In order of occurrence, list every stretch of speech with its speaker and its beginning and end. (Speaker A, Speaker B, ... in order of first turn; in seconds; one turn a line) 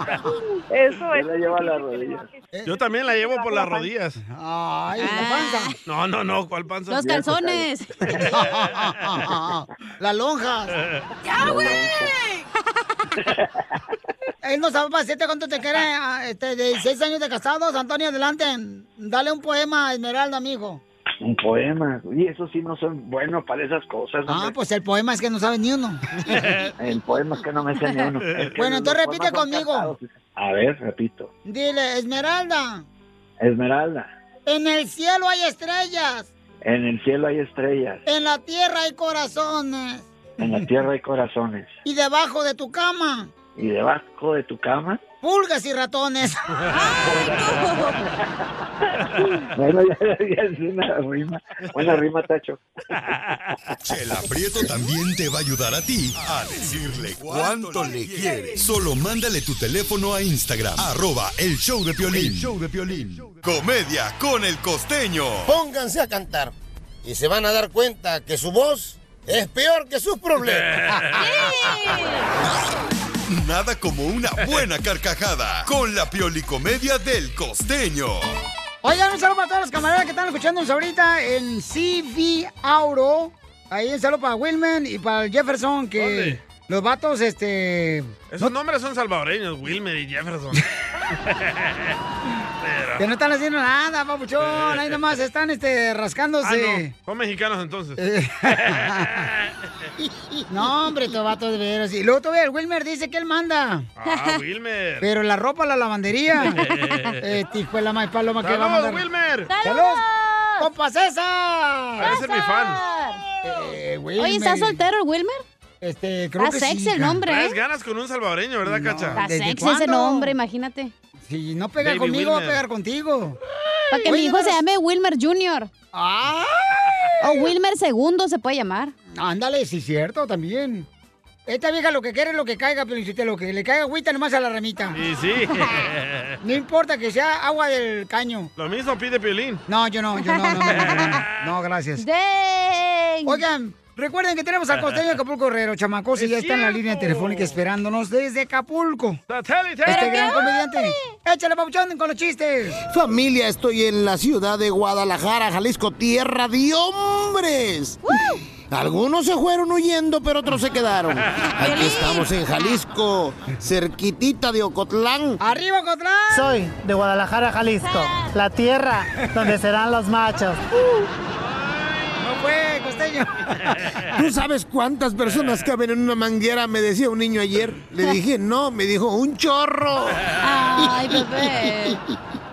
Speaker A: 0.7-3.9
Speaker B: 1.1-2.3
Speaker C: 2.7-4.2
Speaker D: 4.2-5.7
Speaker E: 5.0-5.8
Speaker C: 5.9-7.1
Speaker E: 6.9-8.0
Speaker B: 7.1-7.7
Speaker D: 8.2-10.7
Speaker B: 11.3-12.2
Speaker E: 11.4-12.1
Speaker D: 14.4-20.8
Speaker B: 21.2-24.6
Speaker D: 24.3-26.5
Speaker C: 26.2-26.7
Speaker B: 26.8-31.3
Speaker C: 28.3-28.5
Speaker D: 28.6-29.9
Speaker D: 31.5-32.9
Speaker B: 33.4-34.1
Speaker D: 34.5-36.3
Speaker B: 36.6-38.0
Speaker D: 38.1-40.6
Speaker B: 40.4-41.7
Speaker D: 41.9-43.3
Speaker B: 43.5-45.0
Speaker D: 45.2-46.4
Speaker E: 46.7-48.0
Speaker B: 47.0-48.2
Speaker B: 49.5-52.6
Speaker F: 53.9-65.6
Speaker G: 57.4-58.5
Speaker G: 65.5-71.2
Speaker C: 70.7-71.6
Speaker E: 71.2-72.3
Speaker F: 73.3-78.3
Speaker D: 78.8-88.5
Speaker C: 86.0-86.4
Speaker C: 88.3-90.6
Speaker C: 91.3-91.7
Speaker C: 92.6-93.0
Speaker D: 93.0-96.9
Speaker C: 94.5-94.9
Speaker C: 96.4-98.0
Speaker D: 98.0-99.3
Speaker D: 100.5-103.9
Speaker C: 104.0-105.1
Speaker E: 104.1-104.4
Speaker D: 105.0-106.6
Speaker E: 106.5-107.1
Speaker C: 106.6-107.1
Speaker D: 107.2-109.1
Speaker C: 108.4-109.5
Speaker E: 109.5-110.7
Speaker D: 109.6-110.0
Speaker D: 110.6-112.2
Speaker C: 112.0-112.8
Speaker E: 112.0-113.2
Speaker D: 113.4-114.8
Speaker E: 114.2-115.4
Speaker D: 115.8-117.2
Speaker E: 116.4-117.6
Speaker C: 117.3-119.2
Speaker D: 118.7-120.3
Speaker E: 119.2-120.9
Speaker D: 121.3-123.4
Speaker C: 121.8-122.6
Speaker E: 123.9-125.7
Speaker D: 124.0-124.6
Speaker D: 125.9-127.5
Speaker E: 127.2-128.9
Speaker D: 129.1-130.9
Speaker D: 131.5-135.0
Speaker C: 134.9-136.3
Speaker D: 136.4-138.5
Speaker C: 138.6-139.6
Speaker D: 139.7-142.0
Speaker E: 140.2-141.2
Speaker E: 142.0-143.4
Speaker D: 143.2-149.2
Speaker C: 146.2-147.6
Speaker C: 149.3-150.4
Speaker E: 149.9-151.1
Speaker D: 149.9-152.8
Speaker G: 152.9-158.2
Speaker E: 158.1-158.4
Speaker G: 158.7-165.4
Speaker E: 161.6-162.7
Speaker D: 165.4-166.6
Speaker H: 166.6-170.6
Speaker E: 167.8-168.4
Speaker C: 171.4-172.1
Speaker D: 172.2-174.0
Speaker G: 174.2-181.2
Speaker E: 180.4-182.0